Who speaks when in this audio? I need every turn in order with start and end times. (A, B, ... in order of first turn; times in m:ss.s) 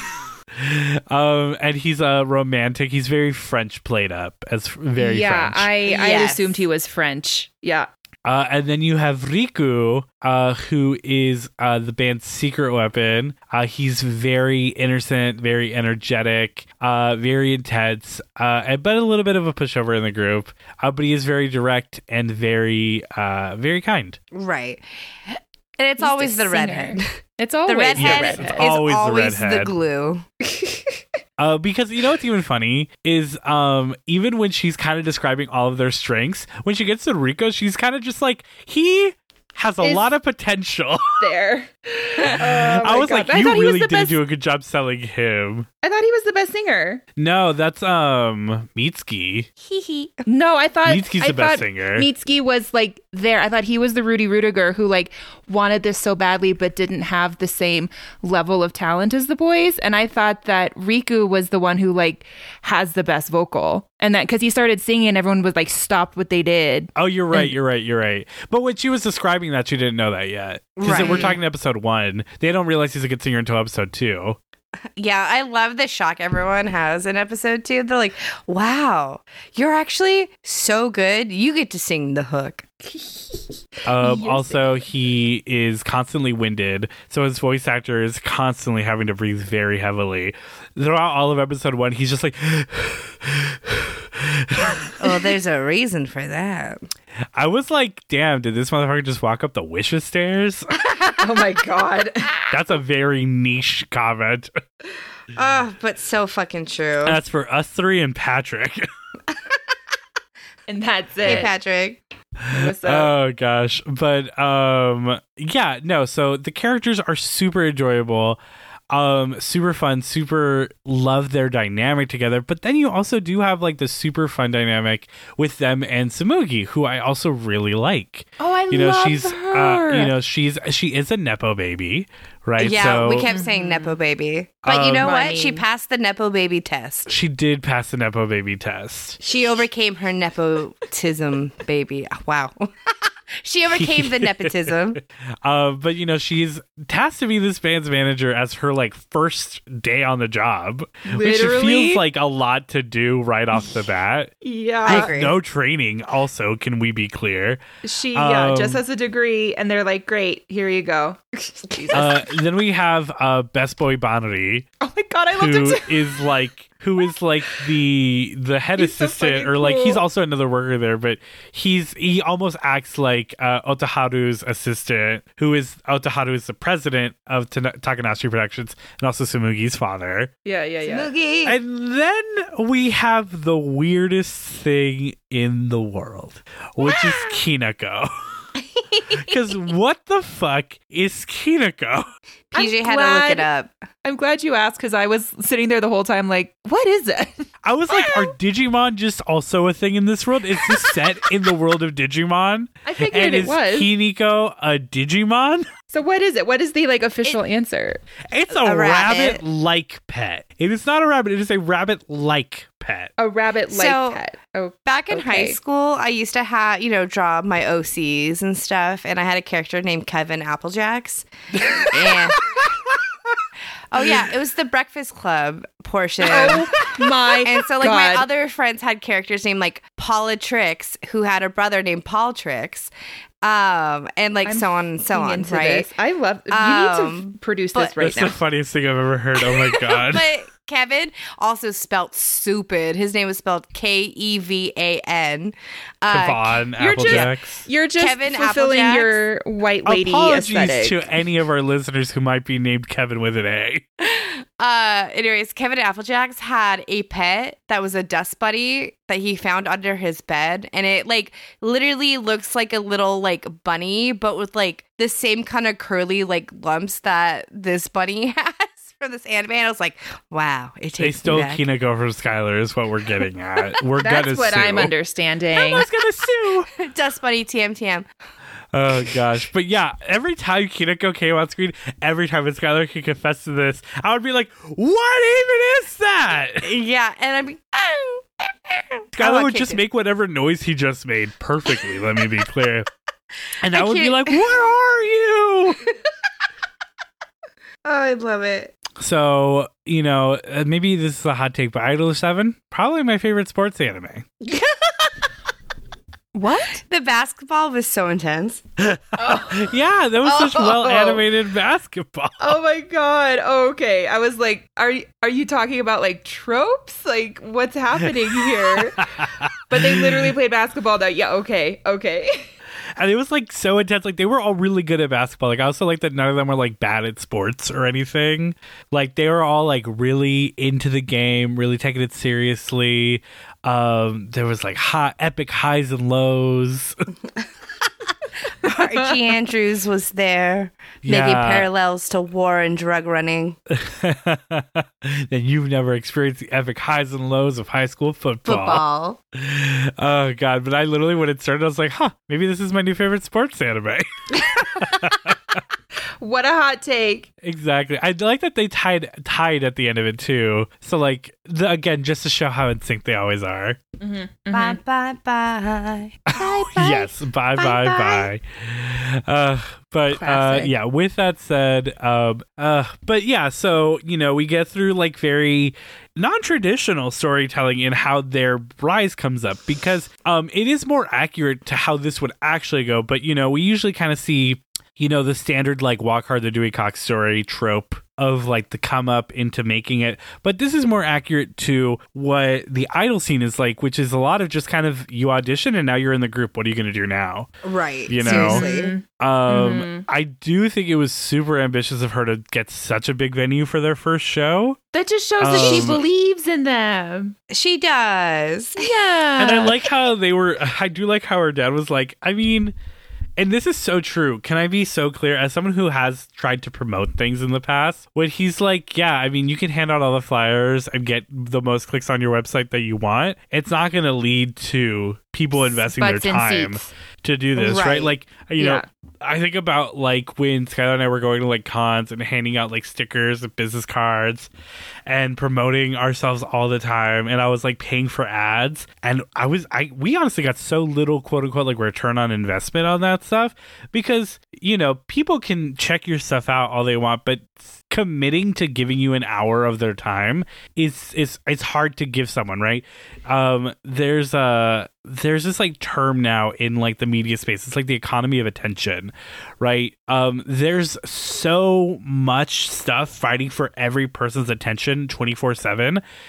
0:00.5-0:05.7 A
0:05.0-0:07.9 B
0:05.8-0:06.6 C
0:08.2-0:24.2 A
0:24.3-0:24.8 C
0:25.8-0:30.2 C
0:26.0-0:28.7 B
0:28.0-0:29.7 A
0:31.4-0:41.2 A
0:39.8-0:40.1 B
0:41.2-0:44.2 B
0:42.3-0:45.7 A
0:45.8-0:47.0 B
0:47.2-0:49.5 A
0:49.6-1:07.5 B
0:50.8-0:52.1 A
1:07.0-1:14.4 A
1:10.8-1:11.4 C
1:10.8-1:11.3 B
1:15.0-1:22.9 C
1:23.8-1:35.0 A
1:24.0-1:24.8 B
1:34.9-1:36.8 C
1:37.3-1:40.7 A
1:41.2-1:42.5 B
1:42.5-1:44.5 A
1:45.3-1:47.2 C
1:47.0-1:48.9 A
1:50.7-1:51.5 B
1:51.2-1:52.0 C
1:52.4-1:58.4 A
1:52.5-1:53.1 B
1:58.9-2:13.3 A
2:08.4-2:10.1 B
2:12.6-2:17.1 C
2:13.2-2:14.0 B
2:14.6-2:15.1 A
2:14.9-2:15.6 B
2:17.1-2:19.2 A
2:19.2-2:25.0 C
2:23.7-2:34.3 A
2:31.1-2:32.0 B
2:34.4-2:35.1 B
2:34.8-2:35.3 C
2:34.8-2:37.6 A
2:37.8-2:42.2 B
2:38.1-2:38.8 A
2:41.9-2:44.7 A
2:44.8-2:46.3 B
2:45.3-3:00.3 A
2:48.8-2:50.0 B
3:00.4-3:01.1 B
3:00.8-3:01.6 C
3:01.4-3:08.1 A
3:09.1-3:12.1 A
3:12.5-3:13.4 B
3:12.5-3:13.7 C
3:14.0-3:18.3 B
3:17.6-3:25.7 A
3:22.8-3:23.9 B
3:25.9-3:28.0 B
3:28.3-3:33.1 A
3:28.5-3:29.4 C
3:33.2-3:35.6 B
3:33.7-3:34.2 C
3:34.8-3:42.6 C
3:41.6-3:42.8 B
3:43.9-3:52.9 C
3:44.0-3:44.2 B
3:46.2-3:48.2 B
3:53.4-3:55.9 C
3:54.4-3:58.4 B
3:56.5-3:58.0 C
3:58.0-4:00.3 A
3:59.4-4:07.3 C
4:06.1-4:07.6 A
4:06.8-4:11.0 B
4:08.0-4:09.2 C
4:09.8-4:13.8 A
4:14.0-4:31.6 C
4:31.0-4:34.9 A
4:34.0-4:35.9 B
4:35.5-4:36.7 A
4:36.8-4:38.1 C
4:38.7-4:46.7 A
4:46.6-4:49.8 C
4:49.1-4:52.9 A
4:53.6-4:55.9 A
4:53.7-4:54.4 C
4:57.8-4:58.7 C
4:59.0-5:04.3 A
5:06.3-5:06.8 B
5:06.8-5:08.6 C
5:08.8-5:12.6 A
5:09.2-5:11.2 B
5:12.4-5:22.5 B
5:18.2-5:20.3 A
5:23.0-5:37.0 A
5:38.6-5:43.6 C
5:38.7-5:39.1 B
5:41.0-5:41.7 A
5:43.7-5:55.6 A
5:48.4-5:49.2 C
5:56.2-5:57.3 B
5:57.4-6:03.8 A
6:04.0-6:04.8 B
6:04.5-6:08.3 C
6:06.3-6:37.5 A
6:10.1-6:10.7 B
6:37.6-6:38.9 C
6:38.1-6:38.7 A
6:38.2-6:40.0 B
6:39.2-6:44.8 A
6:44.9-6:47.3 B
6:45.4-6:46.0 A
6:45.5-6:46.0 C
6:47.5-6:48.9 C
6:48.8-6:49.8 B
6:49.4-6:52.7 A
6:53.4-7:14.5 A
7:05.7-7:06.9 B
7:07.6-7:08.1 C
7:08.6-7:08.8 B
7:15.0-7:46.0 A